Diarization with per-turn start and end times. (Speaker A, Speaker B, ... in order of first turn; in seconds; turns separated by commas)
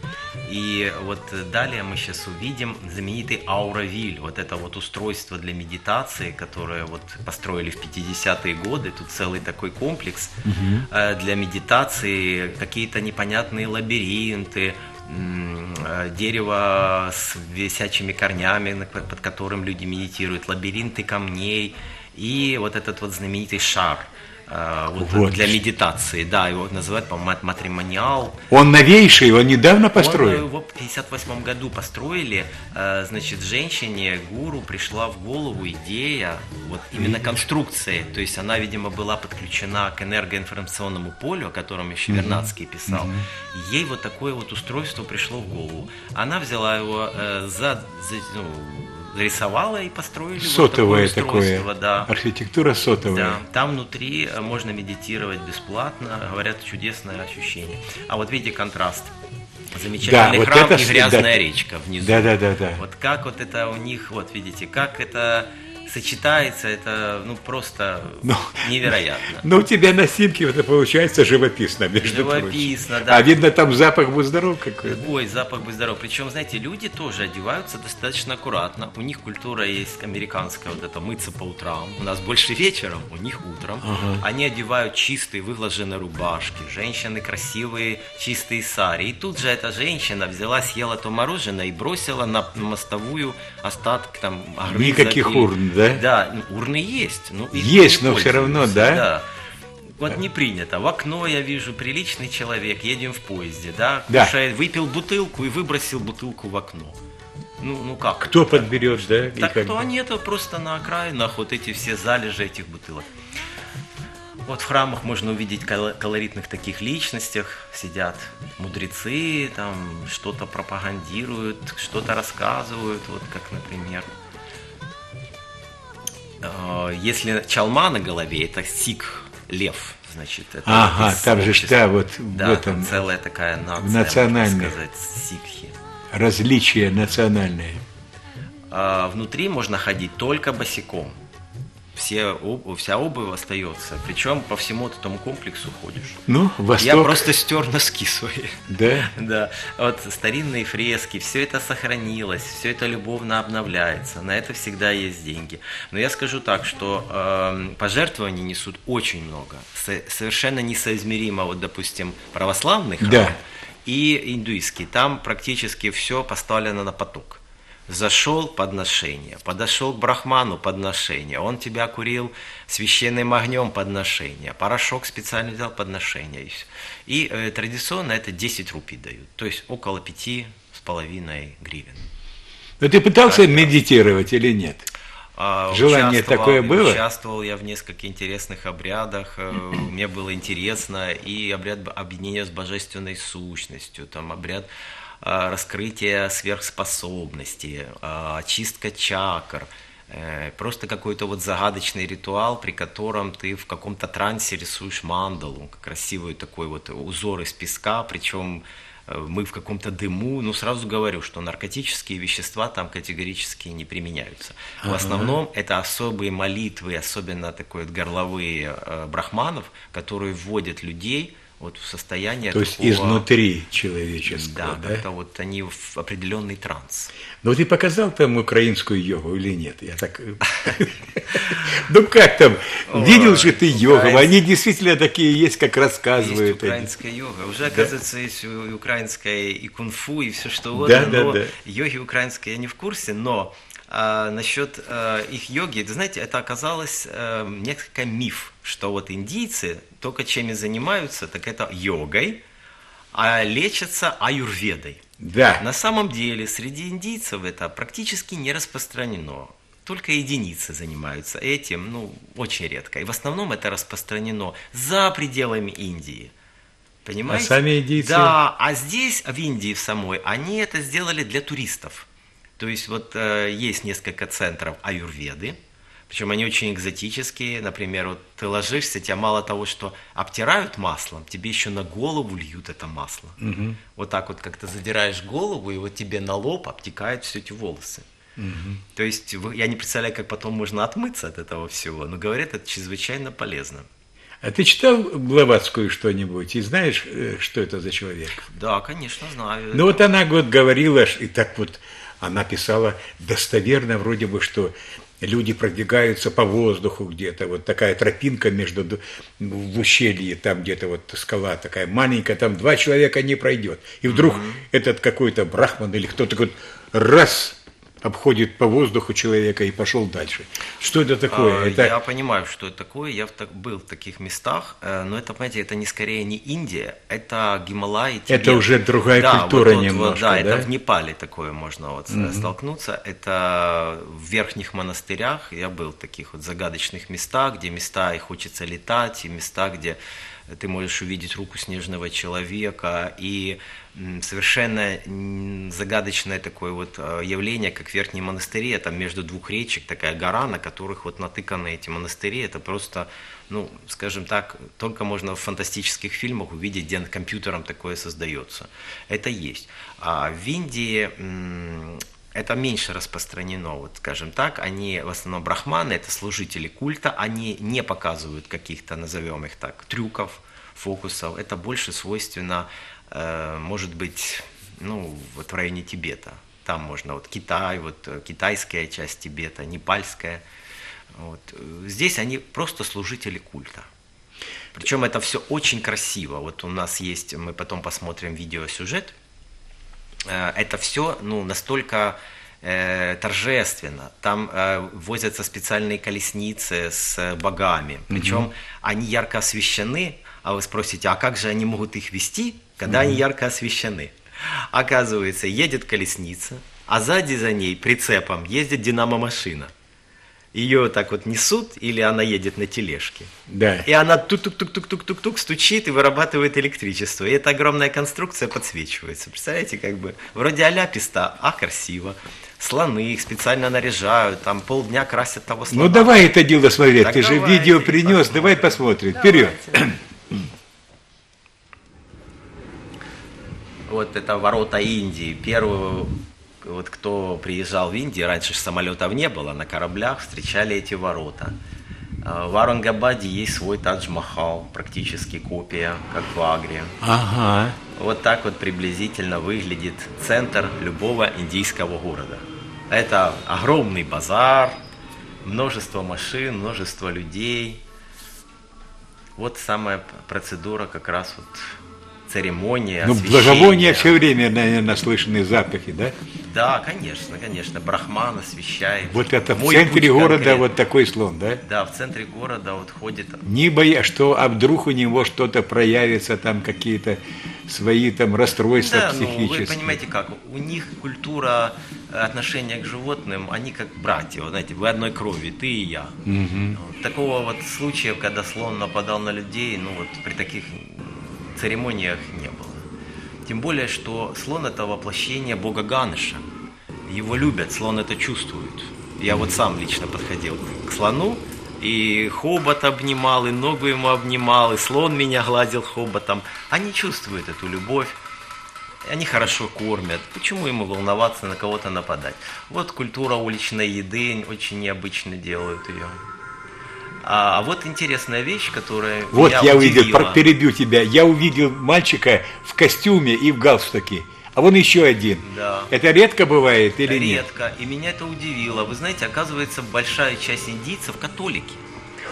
Speaker A: 0.4-28.4, Speaker B: 10.4-10.9, Speaker B: 25.0-25.6, Speaker B: 28.5-30.4, Speaker A: 29.9-52.1, Speaker B: 36.9-37.4, Speaker B: 42.1-43.2, Speaker B: 50.4-53.4, Speaker A: 53.0-59.1, Speaker A: 59.7-69.5, Speaker B: 60.0-61.3, Speaker B: 62.0-62.8, Speaker B: 68.2-75.0, Speaker A: 72.0-73.4, Speaker A: 74.8-99.2, Speaker B: 83.8-84.2, Speaker B: 94.7-96.0, Speaker B: 97.5-99.0, Speaker A: 100.0-107.0, Speaker A: 107.6-113.1, Speaker B: 108.2-109.8, Speaker A: 114.5-124.1, Speaker A: 126.4-135.8, Speaker B: 130.6-133.0, Speaker B: 133.8-134.7, Speaker B: 136.1-137.8, Speaker A: 138.7-141.2, Speaker A: 141.9-146.2, Speaker B: 146.3-147.3, Speaker A: 146.7-182.0, Speaker B: 148.7-149.1, Speaker B: 163.0-163.3, Speaker B: 182.8-184.9, Speaker A: 183.2-183.7, Speaker A: 185.3-194.7, Speaker B: 185.7-187.0, Speaker A: 195.2-223.2, Speaker B: 214.8-215.4, Speaker B: 222.5-225.0, Speaker A: 224.2-227.1, Speaker B: 227.4-236.9, Speaker A: 231.3-231.8, Speaker A: 232.9-234.4, Speaker A: 236.2-252.4, Speaker B: 240.8-241.5, Speaker A: 253.1-255.0, Speaker B: 255.2-255.6, Speaker A: 255.6-266.3, Speaker A: 267.0-272.1, Speaker B: 267.3-268.4, Speaker A: 272.6-275.6, Speaker A: 276.1-283.4, Speaker B: 283.4-283.8, Speaker A: 283.9-288.1, Speaker B: 288.4-288.8, Speaker A: 288.9-293.9, Speaker B: 294.4-298.4, Speaker A: 298.3-300.0, Speaker B: 299.7-321.9, Speaker A: 314.1-314.6, Speaker A: 321.3-340.0, Speaker B: 328.3-330.7, Speaker B: 332.1-332.5, Speaker A: 340.5-380.4, Speaker A: 381.1-383.9, Speaker A: 384.7-389.1, Speaker A: 390.2-409.7, Speaker B: 398.1-398.5, Speaker B: 402.9-403.2, Speaker A: 410.5-413.3, Speaker B: 413.5-413.9, Speaker A: 413.8-426.3, Speaker B: 425.7-430.5, Speaker A: 427.0-428.8, Speaker A: 433.9-441.6, Speaker A: 442.2-447.0, Speaker B: 447.0-447.8, Speaker A: 447.9-454.8, Speaker A: 455.4-457.8, Speaker A: 459.4-464.2, Speaker B: 463.0-466.1, Speaker A: 466.4-470.7, Speaker B: 469.1-471.6, Speaker A: 471.6-473.4, Speaker B: 473.4-480.0, Speaker A: 478.8-486.2, Speaker B: 486.2-486.8, Speaker A: 486.7-492.9, Speaker A: 493.4-496.4, Speaker A: 497.1-508.1, Speaker B: 499.3-499.5, Speaker A: 509.1-516.2, Speaker A: 517.2-520.4, Speaker B: 519.3-527.4, Speaker A: 525.4-525.9, Speaker A: 527.0-531.8